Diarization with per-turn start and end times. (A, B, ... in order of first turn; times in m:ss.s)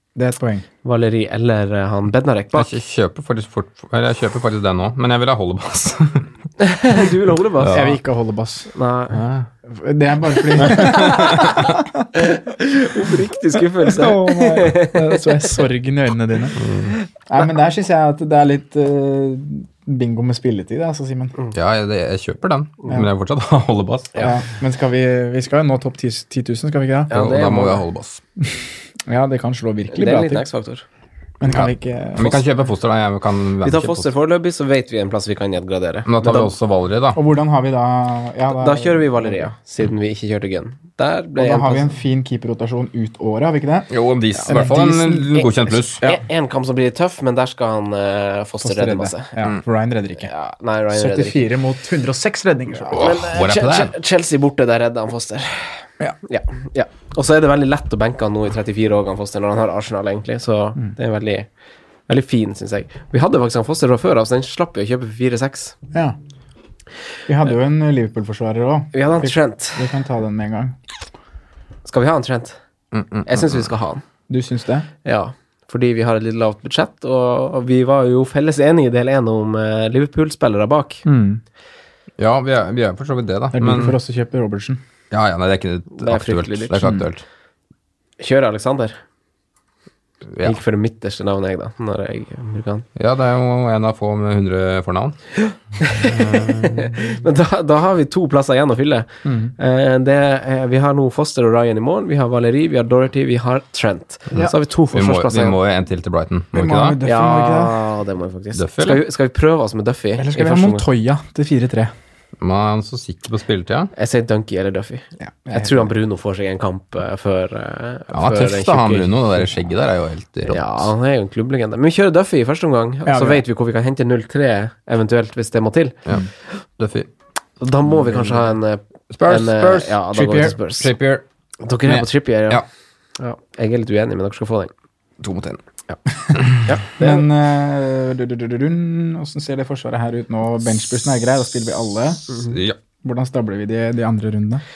0:00.2-0:00.7 A
0:00.8-0:02.8 B
0:02.5-0:06.3 C
0:06.6-0:07.9 B
0:07.6-0:07.9 C
0:07.7-0:08.7 A
0:08.7-0:09.2 B
0:09.1-0:09.5 C
0:09.6-0:12.1 A
0:10.6-0:15.4 B
0:10.8-0:11.4 C
0:13.8-0:16.6 A
0:16.6-0:16.9 C
0:17.2-0:21.3 A
0:21.5-0:24.3 C
0:24.2-0:27.2 A
0:27.1-0:27.8 B
0:27.1-0:28.2 C
0:28.4-0:30.5 A
0:29.9-0:30.8 B
0:31.4-0:32.4 A
0:31.4-0:34.1 C
0:33.6-0:36.5 B
0:36.1-0:37.2 C
0:37.1-0:39.5 A
0:38.5-0:41.9 B
0:41.4-0:45.4 A
0:43.9-0:46.0 C
0:46.0-0:49.3 B
0:48.6-0:50.3 A
0:50.2-0:51.5 B
0:50.9-0:53.1 A
0:52.9-1:01.5 B
0:52.9-0:53.9 C
1:02.1-1:05.8 B
1:07.3-1:10.8 A
1:08.9-1:09.9 B
1:11.8-1:12.6 B
1:12.9-1:13.7 C
1:13.2-1:14.0 B
1:14.3-1:14.9 A
1:15.0-1:21.0 B
1:21.0-1:21.4 A
1:22.2-1:24.0 C
1:23.5-1:24.8 A
1:25.1-1:27.2 C
1:26.0-1:26.8 B
1:26.8-1:27.1 A
1:28.2-1:29.0 B
1:30.3-1:30.6 C
1:30.4-1:32.8 B
1:33.0-1:35.2 C
1:35.4-1:45.6 B
1:36.0-1:37.2 C
1:39.2-1:39.5 A
1:44.3-1:47.0 C
1:46.5-1:47.8 A
1:47.0-1:50.8 B
1:48.5-1:49.0 C
1:50.2-1:51.9 A
1:52.4-1:53.9 C
1:54.0-1:59.1 B
1:55.2-1:55.9 A
1:58.1-2:00.9 C
2:00.5-2:06.0 B
2:03.0-2:03.4 A
2:06.8-2:07.1 C
2:07.6-2:10.9 B
2:09.1-2:11.2 C
2:10.1-2:10.5 A
2:11.6-2:12.6 B
2:11.8-2:12.6 C
2:13.2-2:14.7 B
2:15.2-2:15.6 C
2:16.5-2:17.2 B
2:17.0-2:22.3 A
2:22.3-2:22.8 C
2:23.0-2:24.6 A